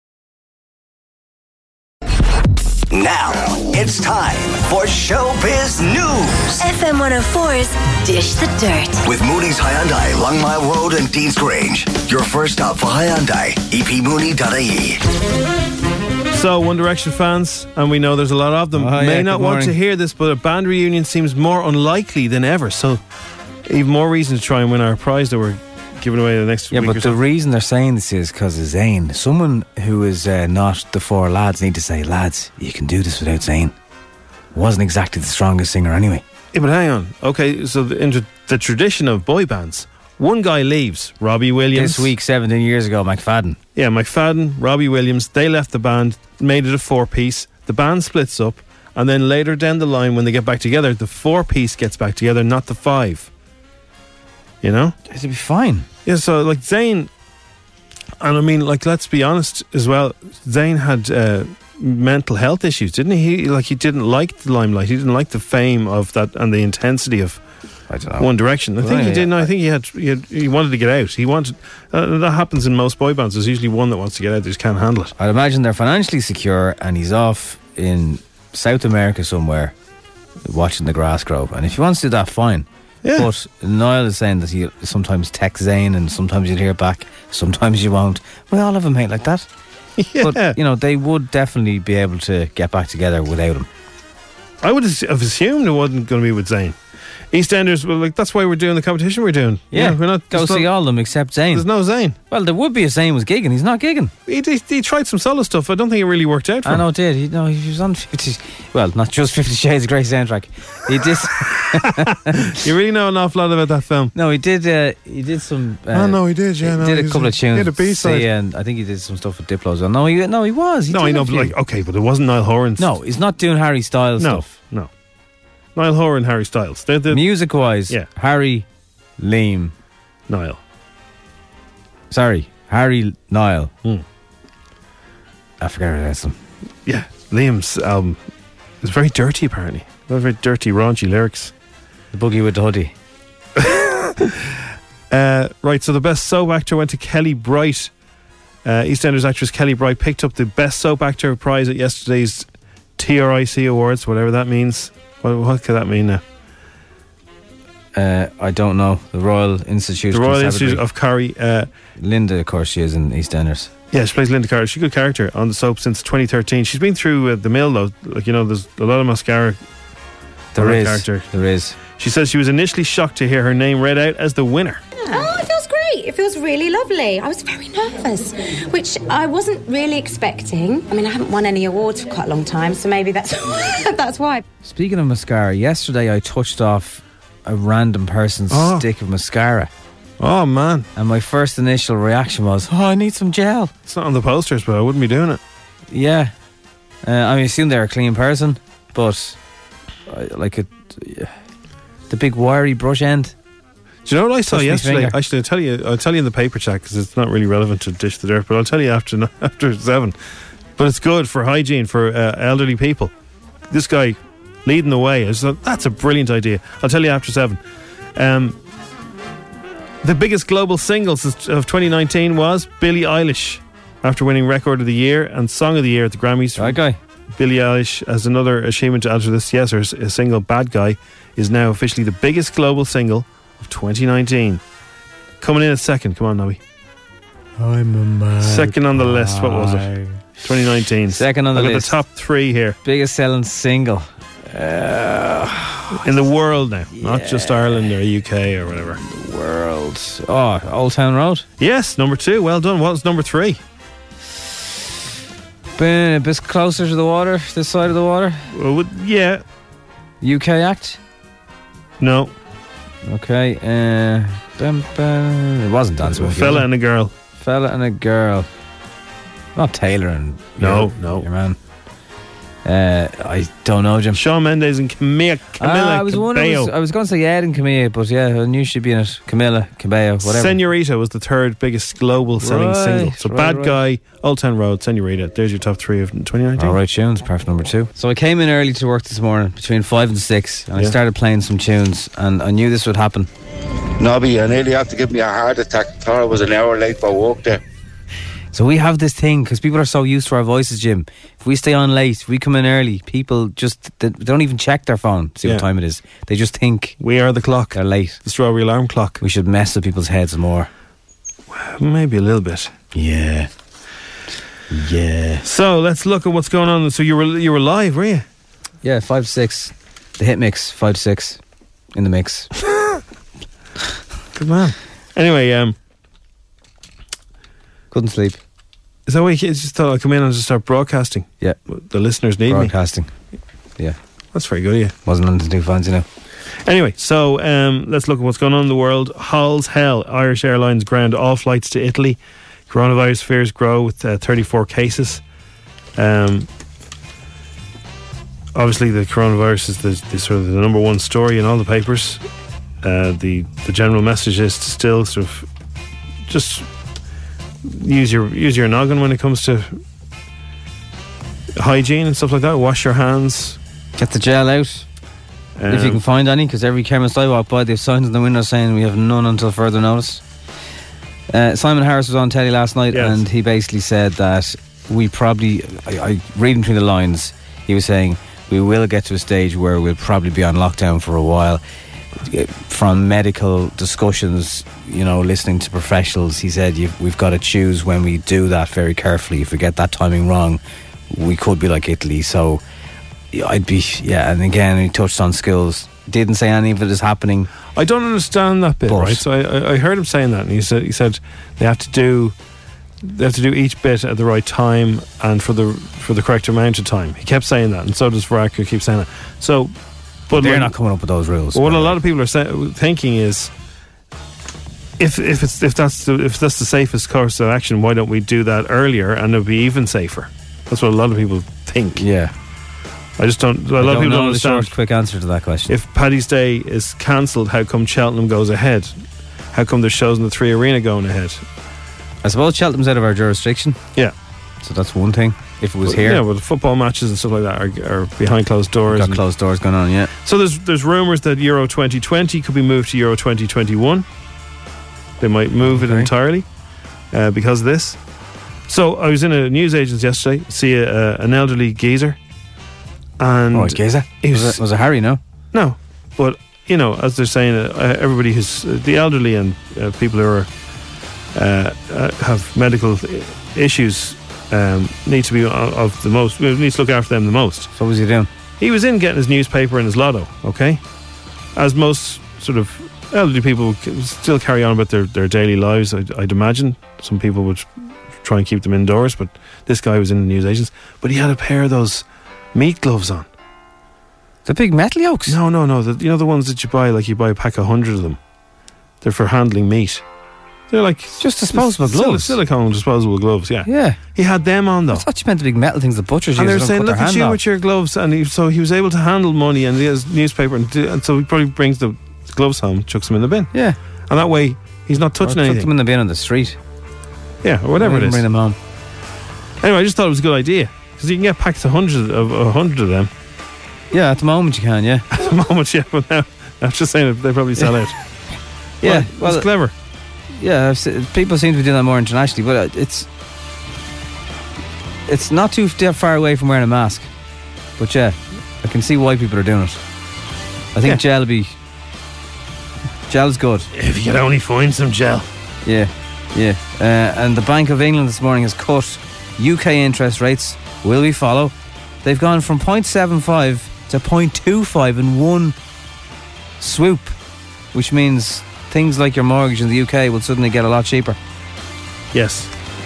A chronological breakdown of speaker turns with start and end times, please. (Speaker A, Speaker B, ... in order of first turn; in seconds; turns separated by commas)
Speaker A: 2.9-6.6, Speaker B: 6.6-9.0, Speaker A: 9.0-15.0, Speaker C: 16.3-23.0, Speaker D: 18.8-19.8, Speaker C: 23.6-27.2, Speaker D: 26.7-33.7, Speaker D: 34.5-36.2, Speaker C: 36.5-42.1, Speaker D: 41.7-43.6, Speaker C: 43.7-53.3, Speaker C: 54.6-54.9, Speaker D: 55.1-55.9, Speaker C: 56.0-57.1, Speaker C: 58.2-67.4, Speaker D: 67.9-69.5, Speaker C: 68.2-75.1, Speaker D: 75.2-79.7, Speaker D: 80.4-89.5, Speaker C: 83.0-83.3, Speaker C: 90.0-90.6, Speaker D: 90.2-93.7, Speaker C: 94.6-96.8, Speaker C: 97.3-100.7, Speaker D: 99.7-101.6, Speaker C: 101.5-102.2, Speaker D: 102.3-104.1, Speaker C: 104.3-106.8, Speaker D: 106.6-112.5, Speaker C: 111.4-111.8, Speaker C: 112.3-114.1, Speaker D: 114.1-121.5, Speaker C: 115.9-118.3, Speaker C: 120.9-122.9, Speaker D: 122.8-124.5, Speaker C: 124.2-124.9, Speaker C: 125.8-127.2, Speaker D: 127.1-128.7, Speaker D: 129.2-129.7, Speaker C: 130.3-130.6, Speaker D: 132.1-133.7, Speaker D: 135.6-136.4, Speaker C: 136.8-138.2, Speaker C: 138.8-141.5, Speaker D: 142.1-142.9, Speaker C: 143.6-144.4, Speaker C: 145.1-147.9, Speaker C: 148.6-152.4, Speaker C: 153.0-156.2, Speaker D: 157.9-160.8, Speaker C: 160.1-161.7, Speaker D: 162.0-163.7, Speaker C: 163.9-169.6, Speaker D: 170.5-171.8, Speaker C: 170.6-171.3, Speaker C: 171.9-174.8, Speaker E: 175.0-184.4, Speaker D: 184.6-189.7, Speaker C: 188.5-188.8, Speaker C: 190.2-190.9, Speaker D: 190.9-193.7, Speaker C: 193.9-195.4, Speaker D: 195.9-196.3, Speaker D: 197.0-199.4, Speaker D: 200.1-201.3, Speaker D: 202.1-203.3, Speaker C: 204.0-210.1, Speaker D: 204.5-205.2, Speaker C: 210.8-213.1, Speaker C: 213.7-217.6, Speaker C: 218.2-218.6, Speaker C: 220.0-226.8, Speaker D: 226.6-227.0, Speaker C: 227.4-234.6, Speaker C: 235.4-236.6, Speaker D: 237.6-240.2, Speaker C: 238.4-239.9, Speaker C: 240.4-242.8, Speaker D: 241.1-241.9, Speaker D: 242.8-245.9, Speaker C: 245.9-249.0, Speaker D: 246.9-247.9, Speaker D: 249.0-251.4, Speaker C: 251.6-253.6, Speaker D: 255.8-258.4, Speaker C: 258.5-259.4, Speaker D: 260.2-261.0, Speaker C: 262.0-262.3, Speaker D: 263.1-266.6, Speaker C: 266.0-267.1, Speaker D: 267.4-268.5, Speaker D: 269.6-271.6, Speaker C: 270.6-271.2, Speaker D: 272.6-274.2, Speaker C: 274.1-276.7, Speaker D: 275.6-280.6, Speaker C: 280.2-286.8, Speaker D: 282.4-283.8, Speaker D: 286.6-293.3, Speaker F: 294.0-297.6, Speaker D: 298.5-307.0, Speaker C: 307.0-309.2, Speaker D: 307.7-308.2, Speaker D: 309.2-310.7, Speaker C: 311.5-312.7, Speaker D: 312.9-313.5, Speaker D: 314.7-315.4, Speaker C: 315.4-318.2, Speaker D: 318.8-321.4, Speaker D: 321.9-322.5, Speaker C: 324.3-325.7, Speaker D: 327.9-328.4, Speaker C: 329.1-332.7, Speaker D: 332.5-333.1, Speaker C: 334.3-334.9, Speaker D: 335.1-336.0, Speaker C: 336.6-342.2, Speaker C: 342.7-345.2, Speaker C: 346.0-346.5, Speaker C: 348.5-352.2, Speaker C: 352.8-355.4, Speaker C: 356.3-356.6, Speaker C: 357.6-359.8, Speaker C: 361.6-363.6, Speaker D: 364.0-364.9, Speaker C: 365.6-366.0, Speaker D: 365.7-370.2, Speaker D: 371.3-381.6, Speaker C: 372.9-373.2, Speaker D: 382.2-392.6, Speaker D: 393.3-397.5, Speaker C: 397.7-402.3, Speaker D: 398.9-399.2, Speaker C: 403.0-409.7, Speaker C: 410.3-410.7, Speaker D: 410.3-412.0, Speaker C: 411.5-413.5, Speaker C: 415.0-422.0, Speaker D: 421.9-422.3, Speaker C: 423.2-424.7, Speaker D: 423.8-425.7, Speaker C: 425.7-429.0, Speaker C: 429.5-431.4, Speaker D: 432.2-433.8, Speaker D: 434.6-436.2, Speaker C: 435.8-439.2, Speaker D: 438.9-440.1, Speaker C: 440.2-444.0, Speaker C: 445.2-446.4, Speaker D: 445.7-446.1, Speaker C: 447.1-448.0, Speaker C: 448.7-452.2, Speaker C: 453.2-454.6, Speaker D: 453.5-455.2, Speaker C: 455.5-460.5, Speaker C: 461.3-467.7, Speaker D: 467.8-468.3, Speaker C: 468.6-470.8, Speaker C: 471.6-483.3, Speaker D: 484.4-485.4, Speaker C: 485.2-488.2, Speaker C: 489.0-490.0, Speaker C: 490.7-495.0, Speaker D: 491.2-492.4, Speaker D: 493.6-494.0, Speaker D: 494.9-497.4, Speaker C: 496.4-503.5, Speaker C: 504.1-505.7, Speaker D: 505.2-506.6, Speaker C: 507.4-508.2, Speaker D: 507.8-508.6, Speaker C: 509.6-513.1, Speaker D: 513.9-515.0, Speaker C: 515.1-518.0, Speaker D: 518.8-519.5, Speaker C: 518.8-519.7, Speaker D: 520.4-523.1, Speaker D: 525.1-527.1, Speaker D: 527.8-529.8, Speaker D: 530.7-531.5, Speaker D: 533.1-533.7, Speaker C: 533.7-535.3, Speaker D: 535.6-545.5, Speaker D: 546.6-547.1, Speaker D: 547.7-551.2, Speaker C: 552.1-552.5